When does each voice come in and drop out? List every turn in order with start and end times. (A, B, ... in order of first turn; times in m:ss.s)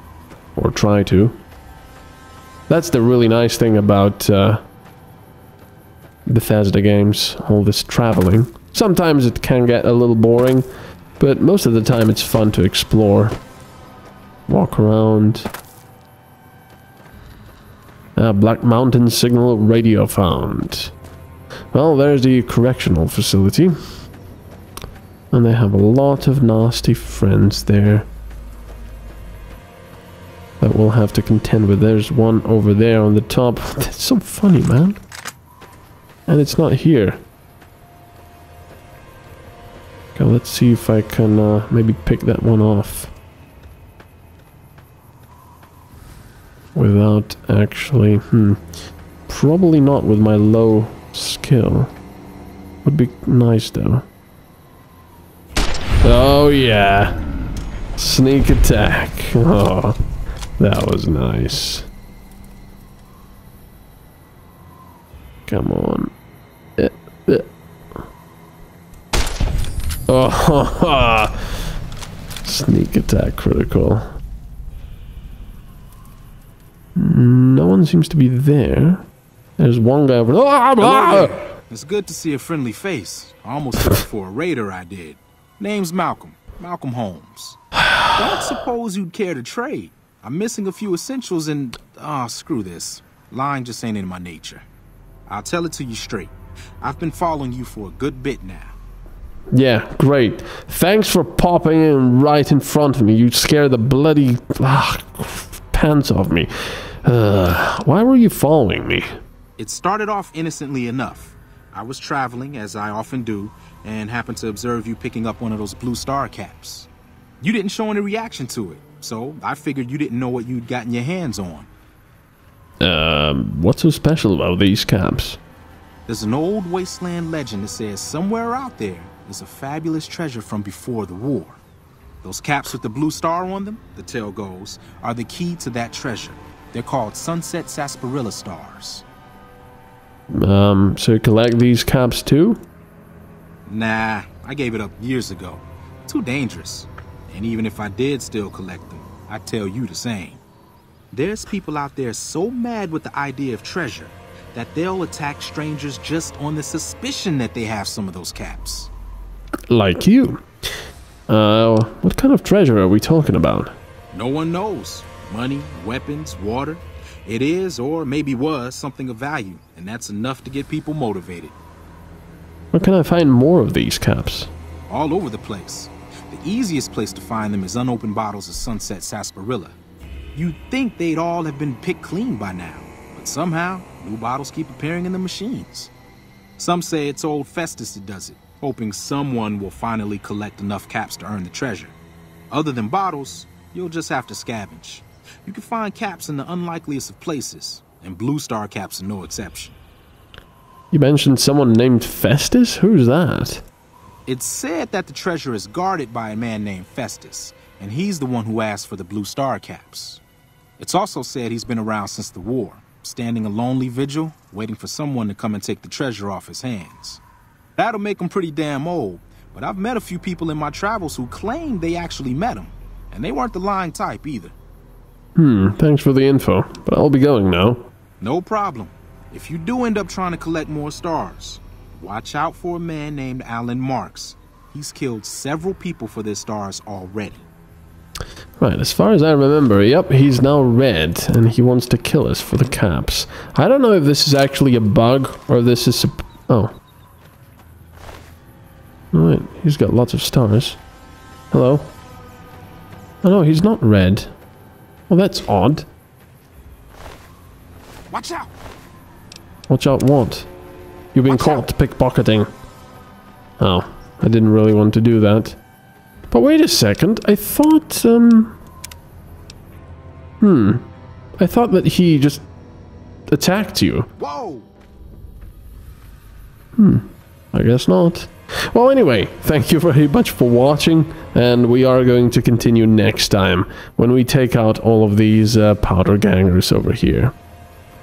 0:00.6-0:01.4 A
0:02.7-0:04.6 A
0:06.3-0:10.7 A
0:11.2-0:13.4 A
0:14.5-0:15.5 A
0:18.2-0:20.9 A
0:21.7-0:23.8 A
0:25.3-0:28.1 A
0:30.6-0:35.0 A
0:36.3-0:37.2 A
0:40.2-0:43.1 A
0:46.8-0:48.6 A
0:49.3-0:51.9 A
0:52.8-0:54.0 A
0:56.0-0:57.2 A
0:58.0-1:00.0 A
1:00.6-1:01.9 A
1:05.5-1:06.1 A
1:06.8-1:07.5 A
1:10.1-1:11.6 A
1:12.4-1:14.2 A
1:17.0-1:19.0 A
1:19.6-1:21.4 A
1:20.8-1:34.7 B
1:35.3-1:38.8 B
1:39.5-1:49.1 A
1:49.6-1:56.9 B
1:57.4-2:01.7 B
2:02.8-2:05.4 A
2:06.1-2:11.6 B
2:12.2-2:19.0 B
2:20.3-2:22.6 A
2:23.7-2:30.4 B
2:31.1-2:38.9 B
2:39.7-2:40.5 A
2:41.3-2:43.7 A
2:44.1-2:51.6 B
2:52.7-2:54.5 A
2:54.9-2:59.8 B
3:00.4-3:05.9 B
3:06.6-3:12.0 B
3:12.5-3:19.8 B
3:20.9-3:23.6 A
3:24.3-3:30.2 B
3:30.8-3:37.2 B
3:37.8-3:44.5 B
3:45.4-3:47.9 A
3:48.2-3:57.4 B
3:58.6-4:06.7 A
4:09.1-4:10.8 A
4:11.5-4:11.9 A
4:13.2-4:14.3 A
4:15.1-4:15.9 A
4:18.1-4:18.5 B
4:19.7-4:20.5 A
4:21.1-4:22.5 A
4:21.3-4:21.7 B
4:23.6-4:25.6 A
4:26.3-4:28.6 A
4:30.4-4:32.5 A
4:33.3-4:34.1 A
4:34.2-4:34.7 B
4:36.8-4:47.3 A